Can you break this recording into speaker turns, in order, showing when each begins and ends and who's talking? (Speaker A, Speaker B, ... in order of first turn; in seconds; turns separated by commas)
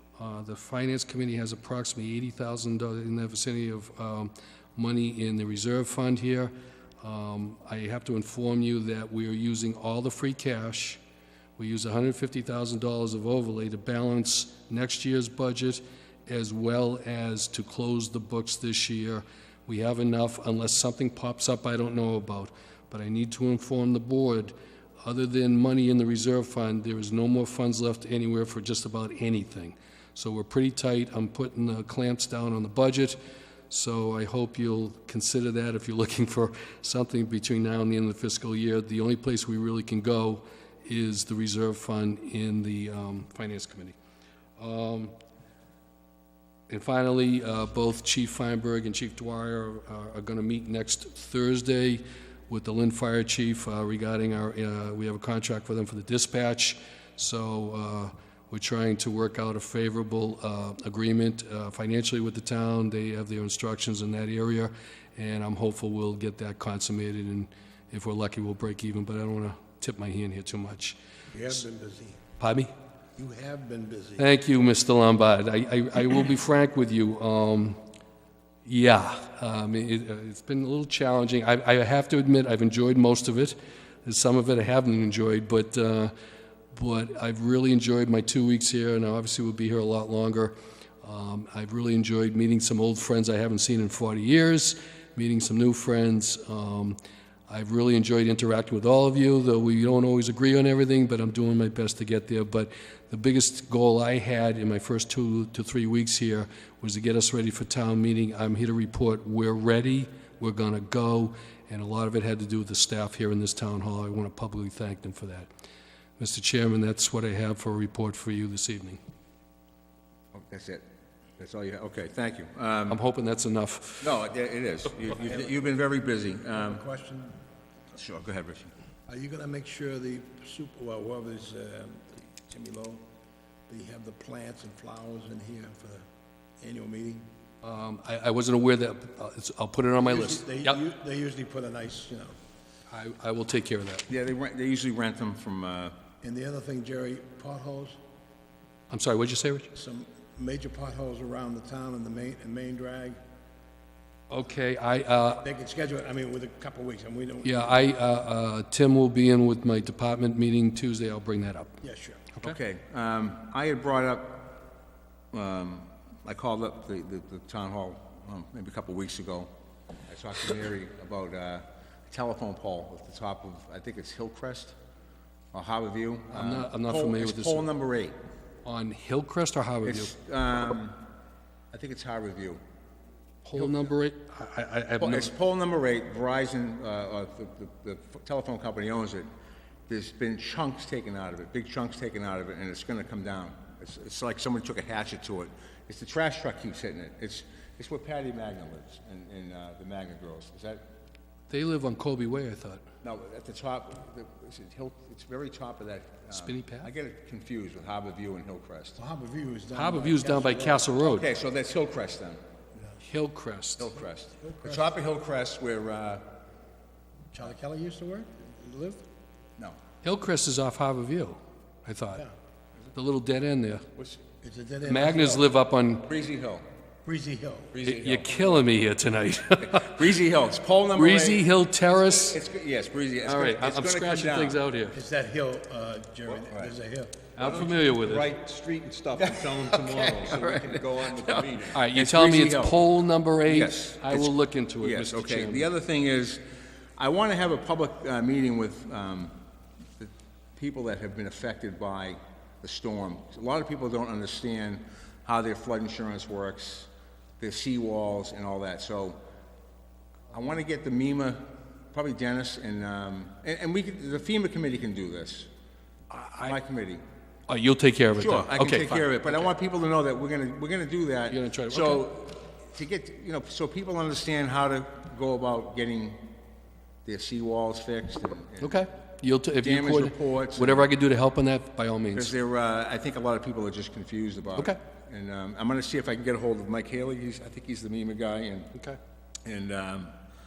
Speaker A: 0.2-11.0, Speaker A: 11.6-33.2, Speaker A: 33.7-44.0, Speaker A: 44.6-45.1, Speaker A: 46.7-71.0, Speaker B: 71.3-72.2, Speaker A: 72.4-72.7, Speaker B: 73.2-74.3, Speaker A: 74.2-77.8, Speaker A: 78.7-86.1, Speaker A: 86.7-115.5, Speaker A: 116.2-119.0, Speaker C: 120.3-120.8, Speaker C: 121.4-123.0, Speaker A: 122.9-124.1, Speaker C: 124.0-126.8, Speaker B: 125.2-125.6, Speaker B: 126.5-127.4, Speaker C: 127.9-128.7, Speaker B: 129.1-133.0, Speaker B: 133.7-136.0, Speaker B: 136.6-137.2, Speaker A: 137.6-140.8, Speaker B: 140.0-142.3, Speaker A: 142.9-144.1, Speaker C: 144.1-145.9, Speaker B: 146.2-148.0, Speaker A: 148.9-149.7, Speaker B: 149.7-153.2, Speaker A: 154.3-155.4, Speaker B: 155.4-157.9, Speaker A: 157.4-161.8, Speaker B: 161.8-162.3, Speaker C: 162.4-164.5, Speaker C: 165.3-169.5, Speaker C: 170.1-174.8, Speaker C: 175.5-178.1, Speaker A: 176.3-177.7, Speaker A: 178.6-180.1, Speaker C: 179.8-181.0, Speaker C: 181.7-182.6, Speaker A: 183.4-185.3, Speaker C: 183.5-183.9, Speaker C: 185.0-189.3, Speaker C: 189.9-200.8, Speaker A: 201.5-202.8, Speaker C: 203.0-209.0, Speaker A: 206.3-206.9, Speaker B: 209.0-210.9, Speaker A: 209.7-211.3, Speaker C: 211.0-212.4, Speaker A: 213.0-213.9, Speaker C: 213.8-216.2, Speaker B: 214.4-214.9, Speaker B: 217.3-219.0, Speaker A: 220.0-222.2, Speaker A: 222.9-223.8, Speaker B: 224.4-225.5, Speaker A: 224.8-226.1, Speaker C: 226.1-226.6, Speaker B: 227.0-227.7, Speaker C: 227.7-228.4, Speaker A: 227.8-230.0, Speaker C: 229.6-231.4, Speaker A: 231.0-232.4, Speaker C: 232.1-234.6, Speaker A: 233.2-235.0, Speaker B: 234.9-237.3, Speaker C: 236.3-236.8, Speaker A: 237.4-238.3, Speaker C: 237.4-237.8, Speaker D: 237.5-241.4, Speaker C: 239.2-242.9, Speaker A: 240.3-240.7, Speaker A: 241.6-245.7, Speaker C: 243.4-246.4, Speaker C: 247.0-249.3, Speaker C: 250.0-259.2, Speaker C: 260.3-265.5, Speaker A: 266.1-266.6, Speaker C: 266.4-267.0, Speaker A: 267.5-269.5, Speaker C: 268.2-276.3, Speaker A: 271.3-272.1, Speaker C: 277.1-278.8, Speaker A: 278.6-282.3, Speaker C: 279.6-280.9, Speaker C: 282.1-288.7, Speaker C: 289.4-290.1